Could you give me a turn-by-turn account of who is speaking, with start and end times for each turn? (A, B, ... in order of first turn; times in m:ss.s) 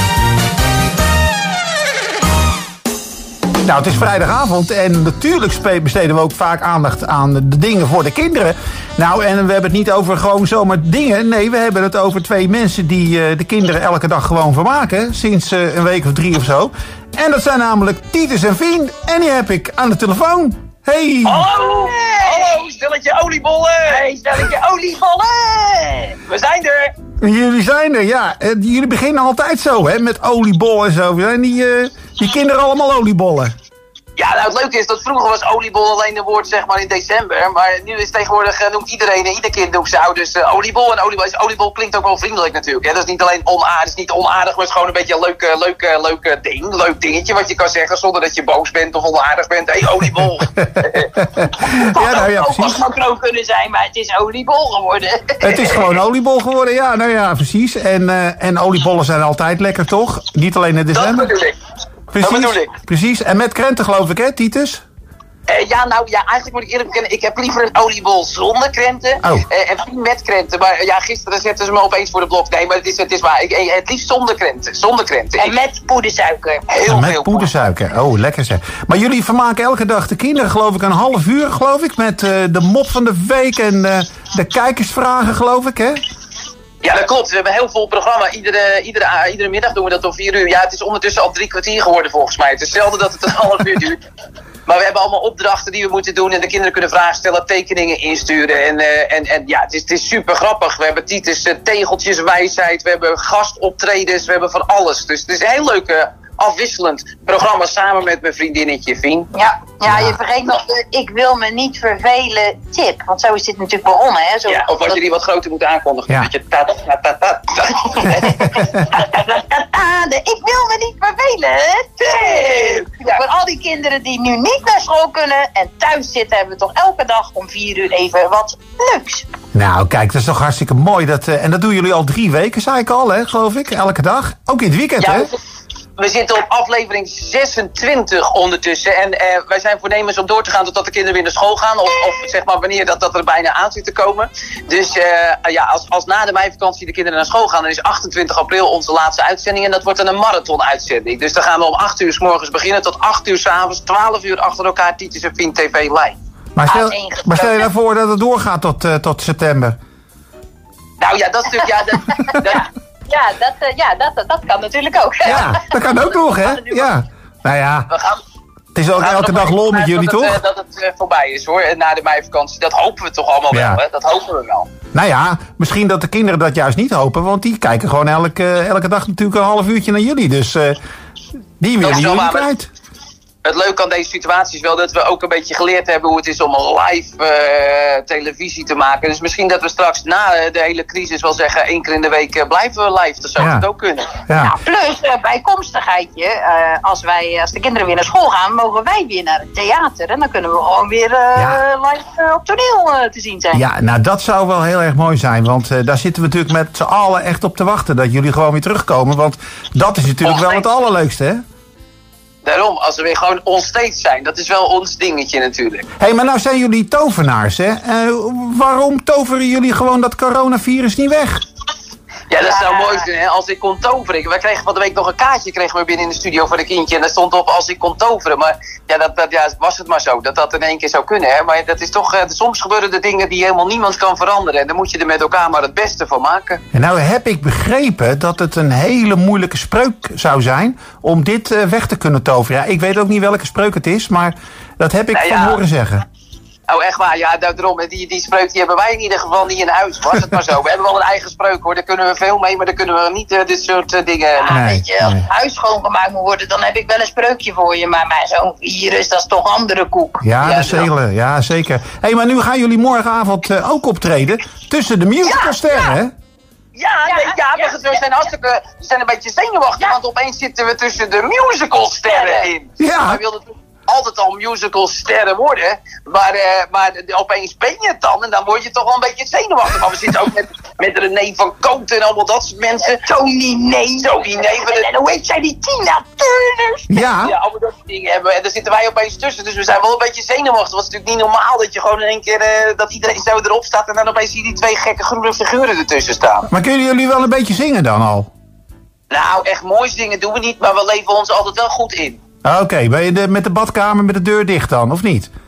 0:03.6-0:21.4 A
0:21.3-0:24.0 B
0:21.3-0:22.6 C
0:23.9-0:26.2 C
0:26.2-0:26.9 B
0:27.2-0:33.5 A
0:34.2-0:51.1 B
0:50.8-0:52.8 A
0:51.9-0:55.8 C
0:55.4-1:01.3 A
1:00.9-1:01.6 B
1:02.1-1:04.8 A
1:02.2-1:02.7 B
1:05.5-1:15.6 B
1:15.4-1:16.6 C
1:16.7-1:17.5 B
1:16.9-1:26.0 A
1:26.8-1:34.0 B
1:34.7-1:49.3 B
1:49.3-1:55.0 C
1:49.9-1:50.2 A
1:54.5-1:58.5 B
1:58.0-2:02.4 C
2:02.0-2:03.2 B
2:03.0-2:09.3 C
2:09.5-2:15.3 A
2:15.0-2:15.3 B
2:16.0-2:36.2 B
2:36.6-2:39.8 A
2:36.7-2:37.7 C
2:41.0-2:42.6 B
2:42.2-2:46.9 C
2:45.2-2:47.9 A
2:47.9-2:48.2 B
2:48.8-2:50.4 A
2:49.0-2:54.7 B
2:53.5-2:53.8 A
2:54.9-3:00.8 A
3:01.6-3:02.7 A
3:01.8-3:02.5 B
3:03.4-3:14.1 B
3:13.4-3:13.6 A
3:14.3-3:14.5 A
3:14.4-3:23.6 C
3:23.5-3:31.4 A
3:30.2-3:30.7 B
3:32.4-3:35.8 B
3:36.0-3:41.4 A
3:42.3-3:56.6 B
3:42.4-3:43.1 C
3:56.7-4:06.0 A
4:05.1-4:05.6 B
4:06.7-4:14.6 B
4:14.4-4:20.2 C
4:14.5-4:15.2 A
4:20.2-4:26.1 A
4:20.4-4:20.9 B
4:25.2-4:26.0 C
4:26.8-4:43.0 B
4:27.0-4:28.0 C
4:32.1-4:32.5 C
4:32.8-4:33.2 A
4:42.9-4:47.0 C
4:44.0-4:44.8 B
4:46.9-4:47.3 A
4:47.2-4:56.5 B
4:56.5-4:58.3 A
4:59.1-5:02.2 B
5:02.4-5:05.3 A